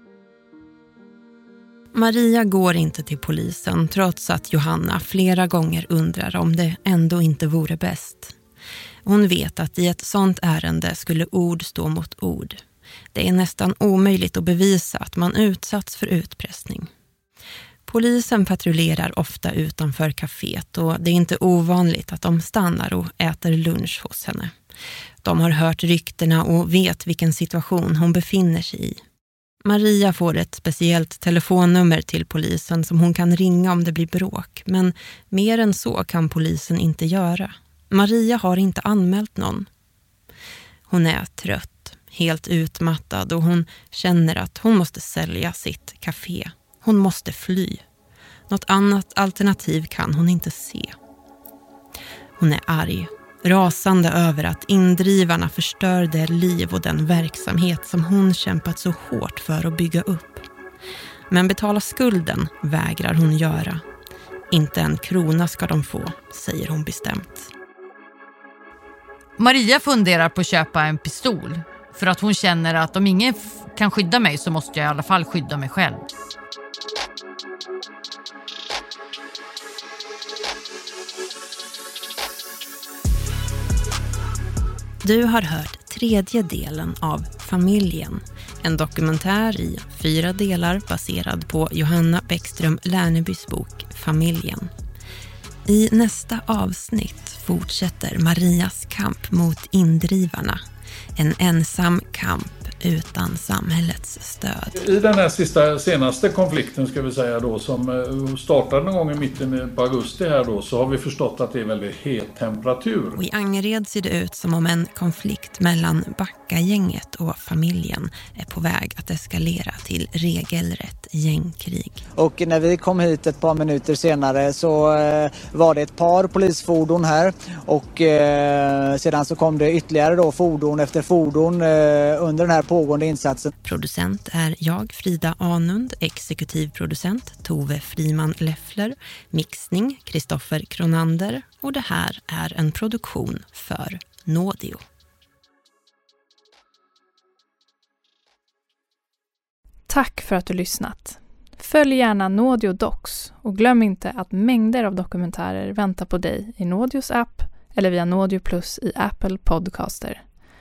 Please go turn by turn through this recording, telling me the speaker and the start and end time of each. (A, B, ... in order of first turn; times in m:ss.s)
0:01.9-0:08.3 A
0:09.0-0:12.6 A
0:13.1-0:16.9 A
0:17.8-0:24.5 A
0:25.2-0:29.0 A
0:29.6-0:39.7 A
0:40.9-0:47.8 A
0:48.5-0:50.9 A
0:52.4-1:00.4 A
1:01.3-1:03.8 A
1:04.5-1:07.5 A
1:09.4-1:16.0 B
1:25.0-1:34.7 A
1:35.6-1:40.6 A
1:41.2-1:44.7 A
1:44.8-1:53.2 C
1:53.1-2:02.0 A
2:02.2-2:13.5 D
2:13.6-2:24.8 A
2:29.9-2:40.2 E